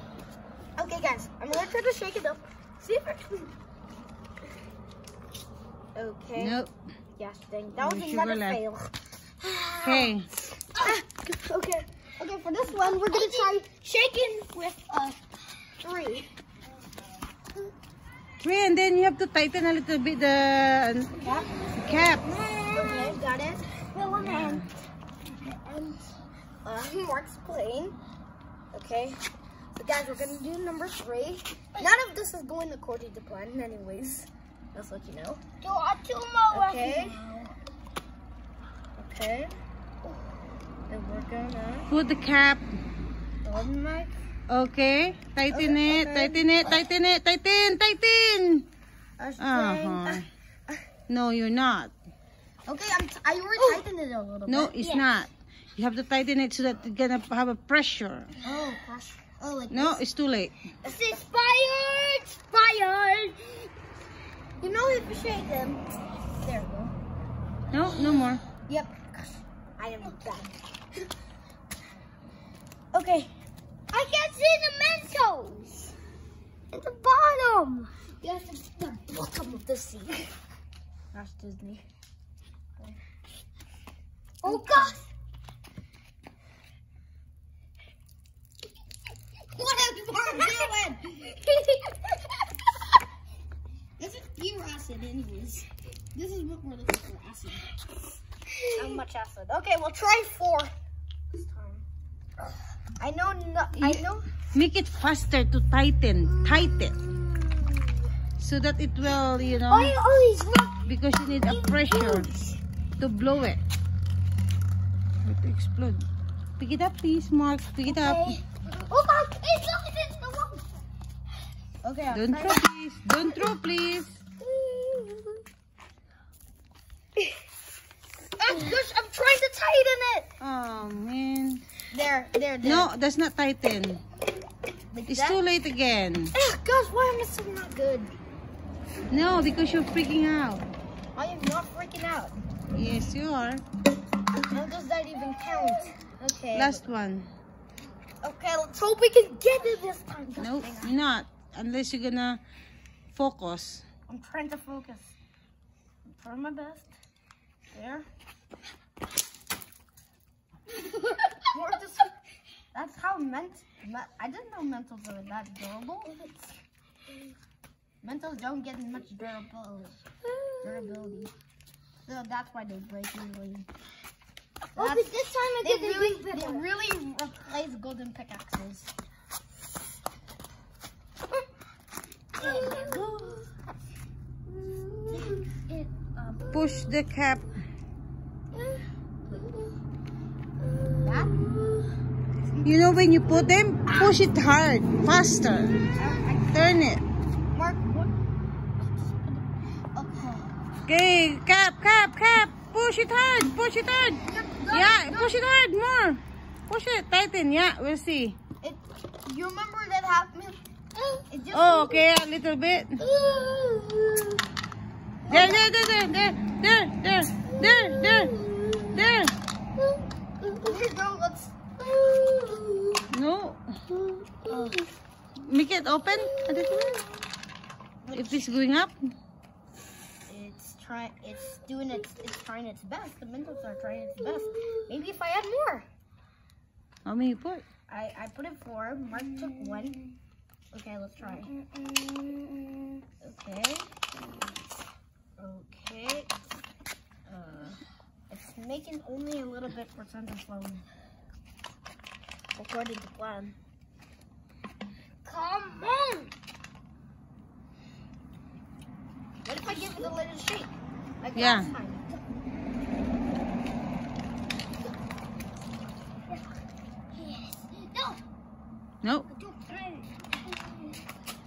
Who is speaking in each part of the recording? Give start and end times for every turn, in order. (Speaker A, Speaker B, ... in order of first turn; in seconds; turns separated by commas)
Speaker A: 0.8-3.5, Speaker A: 5.9-6.6, Speaker B: 6.4-6.7, Speaker A: 7.2-10.1, Speaker B: 7.8-8.6, Speaker B: 9.8-10.3, Speaker A: 10.8-14.7, Speaker C: 12.7-13.5, Speaker C: 14.7-15.2, Speaker A: 15.8-16.3, Speaker B: 18.4-21.2, Speaker C: 21.2-23.2, Speaker A: 21.2-21.5, Speaker B: 21.8-22.3, Speaker A: 22.7-23.6, Speaker C: 23.9-26.0, Speaker B: 24.2-24.6, Speaker A: 26.6-27.9, Speaker A: 28.7-29.2, Speaker A: 29.7-35.4, Speaker C: 35.6-37.5, Speaker A: 36.5-37.2, Speaker A: 39.0-39.5, Speaker A: 40.9-41.9, Speaker B: 41.9-42.7, Speaker A: 43.4-44.1, Speaker B: 44.5-48.7, Speaker A: 45.5-46.8, Speaker A: 49.2-50.8, Speaker B: 49.4-50.2, Speaker B: 51.1-51.9, Speaker A: 52.6-54.7, Speaker B: 54.5-58.3, Speaker C: 54.8-55.1, Speaker A: 58.4-60.0, Speaker B: 59.7-60.5, Speaker A: 60.9-61.2, Speaker C: 60.9-63.7, Speaker A: 64.6-65.9, Speaker A: 66.4-66.9, Speaker B: 67.7-68.4, Speaker A: 68.7-70.5, Speaker A: 72.9-73.3, Speaker C: 73.9-76.0, Speaker C: 76.7-77.9, Speaker A: 78.2-80.3, Speaker A: 81.1-81.8, Speaker C: 84.4-85.0, Speaker A: 84.4-85.0, Speaker A: 89.5-91.3, Speaker C: 91.2-92.1, Speaker A: 94.0-97.6, Speaker A: 98.7-100.7, Speaker A: 101.3-101.8, Speaker A: 103.0-104.2, Speaker B: 104.5-107.0, Speaker C: 106.3-107.8, Speaker B: 108.4-110.0, Speaker C: 109.4-112.6, Speaker B: 110.8-112.3, Speaker B: 113.0-113.6, Speaker B: 115.2-116.0, Speaker B: 116.6-118.4, Speaker C: 117.8-120.7, Speaker A: 121.8-122.6, Speaker B: 122.1-124.2, Speaker C: 124.6-125.3, Speaker A: 128.4-130.3, Speaker B: 130.4-131.6, Speaker A: 131.9-132.9, Speaker B: 132.6-134.0, Speaker A: 134.9-135.4, Speaker B: 135.1-136.3, Speaker A: 136.3-138.1, Speaker B: 139.1-140.6, Speaker A: 141.2-142.3, Speaker B: 142.7-143.6, Speaker A: 144.5-146.9, Speaker B: 146.5-147.3, Speaker A: 148.2-150.9, Speaker B: 150.4-152.4, Speaker B: 153.1-153.8, Speaker A: 154.1-155.2, Speaker A: 156.1-156.9, Speaker A: 157.7-158.1, Speaker C: 160.9-161.3, Speaker A: 161.5-162.1, Speaker A: 162.7-166.5, Speaker A: 168.0-170.0, Speaker C: 170.2-170.9, Speaker A: 170.6-171.3, Speaker A: 172.1-173.7, Speaker C: 174.7-176.6, Speaker A: 174.8-175.1, Speaker A: 175.6-178.9, Speaker C: 182.4-183.4, Speaker A: 182.4-183.4, Speaker C: 184.5-186.8, Speaker A: 185.1-185.5, Speaker A: 186.2-186.5, Speaker B: 186.5-187.5, Speaker C: 188.5-189.7, Speaker C: 190.6-191.9, Speaker A: 191.0-191.3, Speaker A: 192.4-192.7, Speaker B: 192.6-195.8, Speaker C: 193.9-194.1, Speaker A: 195.9-196.7, Speaker B: 196.5-197.0, Speaker A: 197.5-198.1, Speaker A: 198.8-199.2, Speaker A: 199.9-200.4, Speaker B: 200.9-208.4, Speaker A: 204.2-205.4, Speaker A: 208.6-210.6, Speaker C: 210.9-211.2, Speaker A: 211.3-212.1, Speaker B: 211.5-213.0, Speaker C: 213.0-214.4, Speaker A: 215.2-215.6, Speaker B: 215.3-218.3, Speaker C: 217.5-219.0, Speaker B: 218.9-219.3, Speaker C: 219.8-220.7, Speaker A: 220.6-221.7, Speaker C: 221.8-223.0, Speaker B: 223.1-223.7, Speaker C: 223.9-224.8, Speaker B: 225.4-227.0, Speaker C: 226.3-227.0, Speaker A: 228.0-228.5, Speaker B: 228.1-229.1, Speaker A: 230.3-235.9, Speaker C: 234.2-234.8, Speaker B: 237.0-237.6, Speaker A: 237.9-240.0, Speaker C: 239.2-240.1, Speaker A: 240.7-241.5, Speaker C: 241.4-243.0, Speaker A: 243.2-243.9, Speaker A: 245.4-246.3, Speaker A: 247.3-247.8, Speaker A: 248.3-250.8, Speaker A: 252.6-253.6, Speaker C: 255.2-256.3, Speaker A: 259.4-262.0, Speaker C: 259.7-260.0, Speaker B: 261.3-261.7, Speaker C: 267.1-268.2, Speaker C: 269.3-270.9